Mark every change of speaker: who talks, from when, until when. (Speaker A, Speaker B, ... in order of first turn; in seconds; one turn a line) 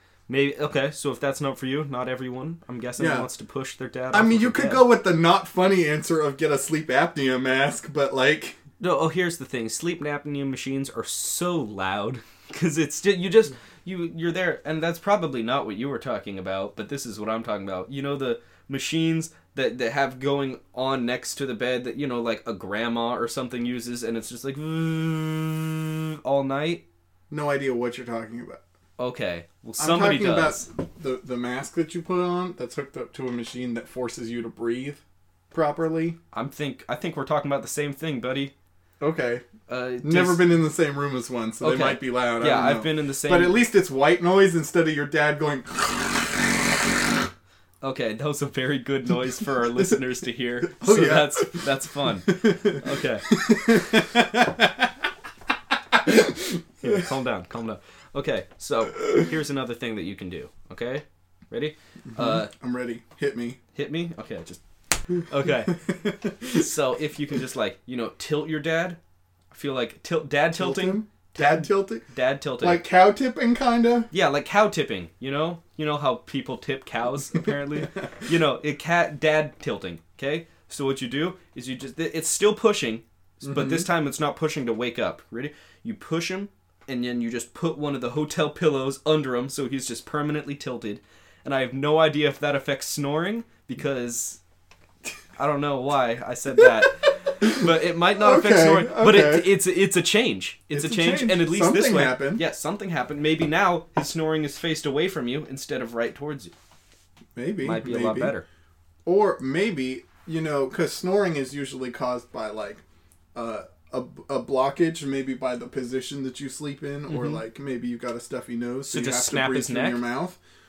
Speaker A: 0.3-4.9
Speaker B: 3.0-3.3
Speaker B: 4.1-8.6
Speaker A: 8.8-26.8
Speaker B: 27.3-28.6
Speaker A: 29.0-30.6
Speaker B: 29.8-35.0
Speaker B: 35.5-36.2
Speaker A: 36.3-38.5
Speaker B: 39.0-39.5
Speaker A: 39.7-40.5
Speaker B: 40.0-46.7
Speaker A: 41.6-43.6
Speaker A: 47.8-53.3
Speaker B: 50.6-51.6
Speaker B: 52.3-54.9
Speaker B: 56.0-57.1
Speaker A: 56.8-62.5
Speaker B: 62.1-63.6
Speaker A: 63.7-64.6
Speaker A: 65.2-65.8
Speaker B: 65.7-66.6
Speaker A: 66.5-69.0
Speaker A: 69.5-72.8
Speaker B: 70.6-72.0
Speaker B: 72.6-74.1
Speaker A: 74.1-94.4
Speaker B: 83.4-83.9
Speaker A: 95.4-106.5
Speaker B: 96.6-96.9
Speaker B: 97.4-99.5
Speaker B: 100.7-102.4
Speaker B: 107.3-108.3
Speaker A: 107.6-108.4
Speaker B: 109.0-112.8
Speaker B: 113.3-120.4
Speaker A: 117.1-117.4
Speaker A: 118.9-120.0